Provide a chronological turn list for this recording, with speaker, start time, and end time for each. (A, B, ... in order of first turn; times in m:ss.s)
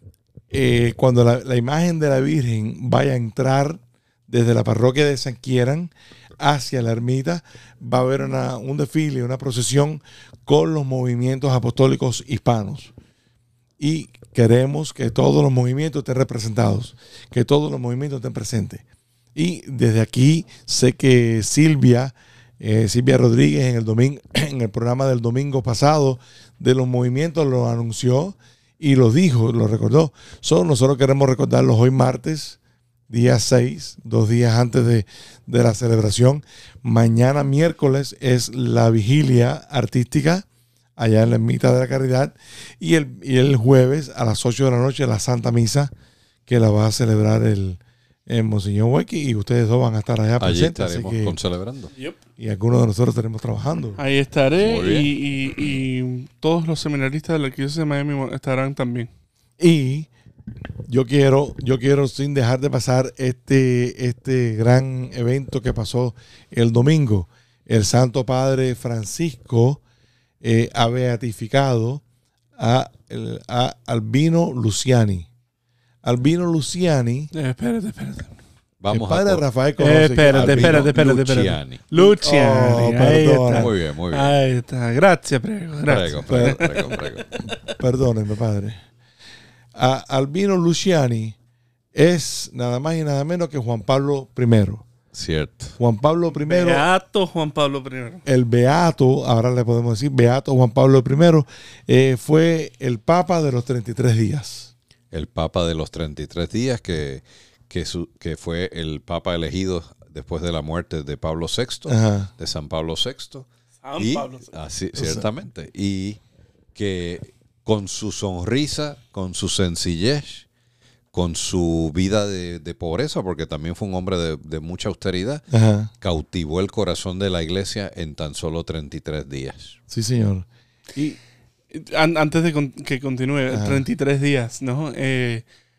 0:00.5-0:12.9 A
0:13.8-0:18.8 A
0:19.4-0:32.6 A
0:33.1-0:40.5 A
0:41.0-0:45.9 A
0:46.5-0:51.4 A
0:50.4-0:51.9 B
0:52.4-0:54.0 A
0:54.0-0:59.1 C
0:54.6-0:55.1 B
0:59.6-1:00.1 A
1:00.9-1:09.8 A
1:10.4-1:12.0 A
1:12.6-1:15.3 A
1:16.0-1:17.3 A
1:17.3-1:18.4 C
1:18.8-1:19.4 B
1:18.9-1:20.9 A
1:19.8-1:27.0 C
1:20.3-1:21.8 B
1:22.0-1:23.7 A
1:23.5-1:24.4 B
1:25.9-1:27.3 B
1:26.3-1:26.8 A
1:27.4-1:28.8 A
1:29.8-1:31.4 A
1:31.9-1:34.8 A
1:35.1-1:35.8 B
1:35.8-1:36.8 A
1:36.5-1:38.2 C
1:38.3-1:44.7 A
1:45.1-1:53.5 B
1:51.9-1:52.3 A
1:53.8-1:54.5 C
1:54.0-1:56.2 B
1:55.0-1:55.2 A
1:56.8-2:00.5 B
2:01.1-2:05.4 B
2:05.5-2:05.9 A
2:06.0-2:09.8 B
2:09.9-2:11.2 A
2:11.7-2:15.4 C
2:13.5-2:13.8 A